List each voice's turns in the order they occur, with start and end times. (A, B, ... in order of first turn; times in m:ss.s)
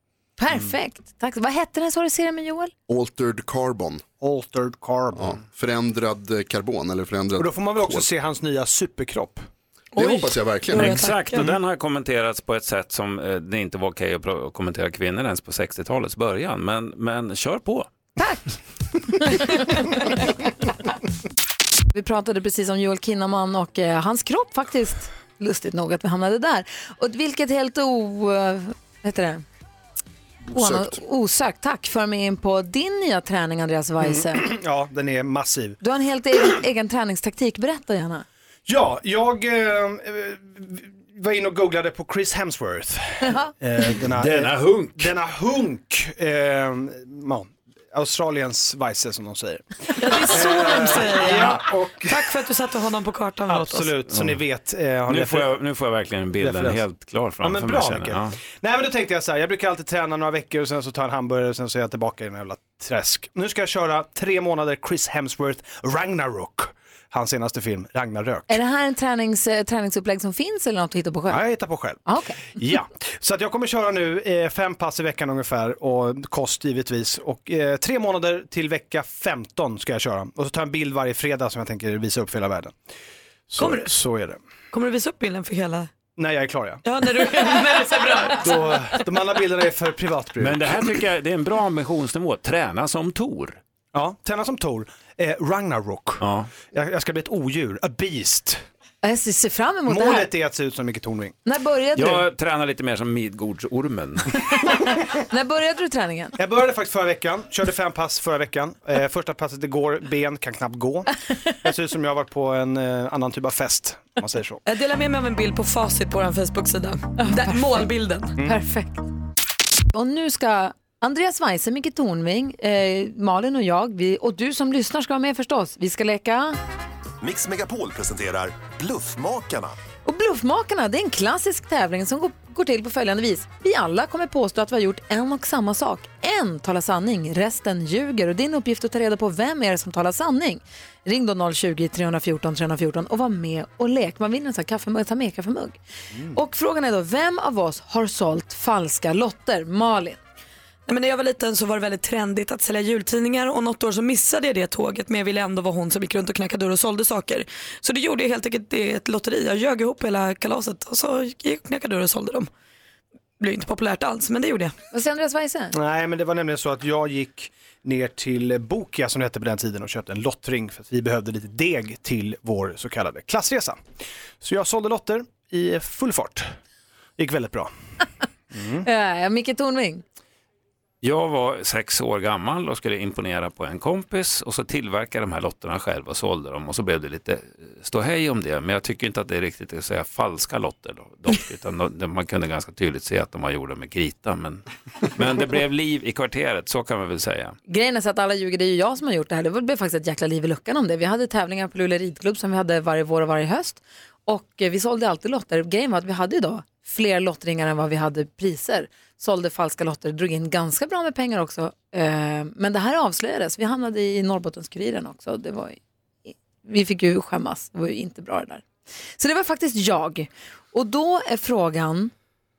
0:00.4-0:02.7 A
0:02.9-0:04.0 B
0:04.2-0:05.4 C
0:05.2-0:08.1 B
0:07.4-0:09.5 C
0:09.9-0:11.5 D
0:10.0-0:11.0 B
0:10.8-0:17.9 E
0:18.2-0:18.4 A
0:19.1-0:20.2 A
0:21.9-0:29.4 A
0:30.5-0:31.0 B
0:30.5-0:34.4 A
0:34.0-0:35.8 C
0:35.8-0:38.2 A
0:38.7-0:52.3 C
0:43.2-0:43.5 A
0:44.0-0:45.1 E
0:50.0-0:53.9 D
0:53.5-0:55.6 C
0:54.1-0:54.4 E
0:55.1-0:58.4 E
0:56.4-0:56.8 C
0:57.4-1:08.6 C
1:08.5-1:11.4 A
1:11.3-1:22.8 C
1:12.0-1:12.5 A
1:23.5-1:24.4 C
1:23.6-1:23.9 D
1:24.7-1:25.9 D
1:26.2-1:26.8 C
1:26.8-1:28.8 D
1:28.3-1:30.8 C
1:30.4-1:33.6 E
1:33.9-1:38.6 C
1:36.2-1:36.5 E
1:39.0-1:40.3 A
1:39.9-1:41.4 C
1:41.4-1:42.2 A
1:41.9-1:44.4 E
1:45.3-1:46.3 A
1:46.4-1:54.6 C
1:54.6-1:58.3 D
1:57.2-1:57.6 A
1:58.4-1:59.0 A
1:59.9-2:06.6 A
2:07.2-2:09.8 F
2:10.0-2:25.8 A
2:26.3-2:30.2 A
2:30.9-2:42.5 D
2:43.4-2:44.7 D
2:44.9-2:45.7 A
2:45.7-2:53.8 C
2:54.4-2:56.5 C
2:57.2-2:57.7 C
2:58.5-2:58.8 C
2:58.8-3:00.0 A
3:01.0-3:17.5 E
3:17.7-3:38.6 A
3:39.2-3:42.1 A